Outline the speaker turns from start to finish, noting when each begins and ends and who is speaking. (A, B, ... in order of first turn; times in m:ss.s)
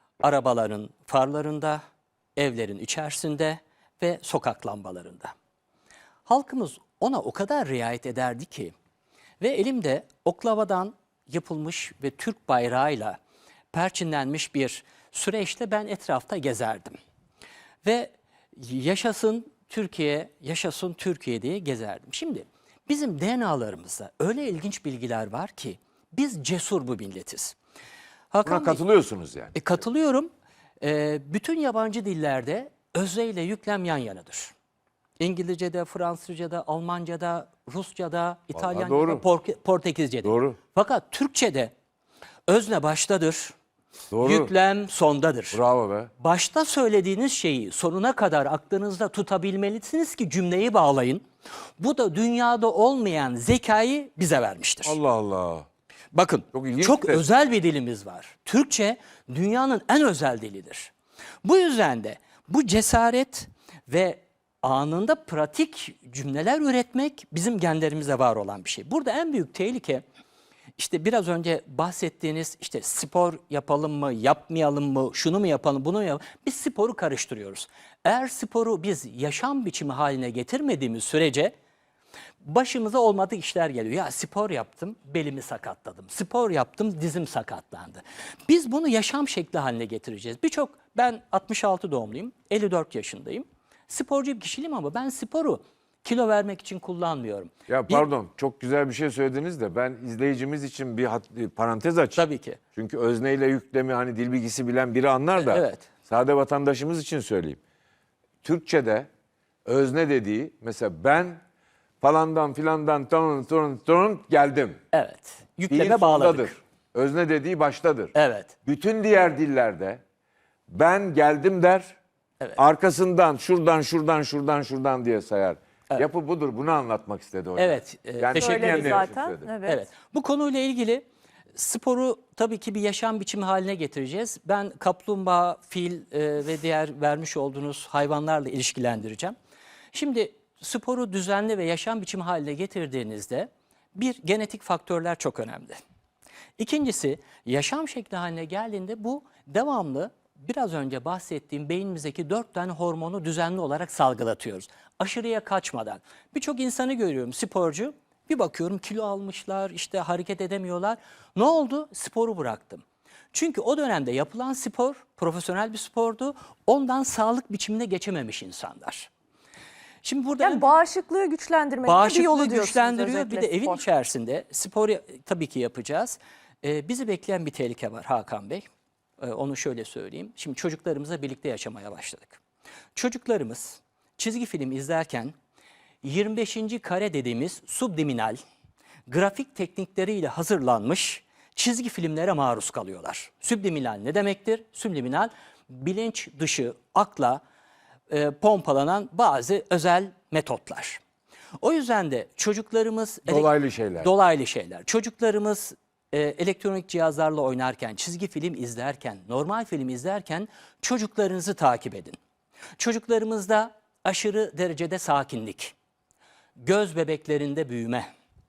0:00.2-0:01.8 A
0:02.4-0:05.3 A
0:06.3-0:08.7 A
0:09.4-0:13.2 A
0:13.7-0:17.0 A
0:17.8-0:27.6 A
0:28.3-0:28.8 A
0:28.4-0:29.6 B
0:29.5-0:30.3 A
0:30.8-0:34.5 A
0:35.2-0:41.7 A
0:38.5-0:39.2 B
0:40.2-0:40.6 B
0:42.5-0:43.5 A
0:44.1-0:44.5 B
0:44.2-0:45.6 A
0:45.5-0:46.1 B
0:46.2-0:51.2 A
0:51.8-0:55.0 A
0:54.8-0:55.7 B
0:56.1-1:00.9 A
0:56.5-0:57.2 B
1:01.4-1:10.0 A
1:10.8-1:21.5 A
1:22.4-1:38.1 A
1:37.7-1:42.2 B
1:42.2-1:42.6 A
1:42.7-1:47.6 B
1:45.4-1:45.9 A
1:48.4-1:49.1 B
1:49.6-1:51.4 B
1:52.0-1:54.8 B
1:54.9-1:56.6 A
1:55.7-2:00.0 B
1:58.1-1:58.5 A
2:00.7-2:02.0 B
2:02.6-2:09.5 B
2:07.6-2:09.1 A
2:08.4-2:09.8 C
2:09.6-2:19.4 A
2:19.9-2:25.8 A
2:26.6-2:49.1 A
2:50.0-2:50.7 A
2:50.4-2:53.8 C
2:51.8-2:58.7 A
2:59.2-3:02.4 A
3:02.9-3:05.3 A
3:06.0-3:08.4 A
3:09.1-3:17.4 A
3:18.1-3:21.0 A
3:21.6-3:32.2 A
3:23.2-3:24.1 B
3:32.8-3:35.7 A
3:36.6-3:38.1 A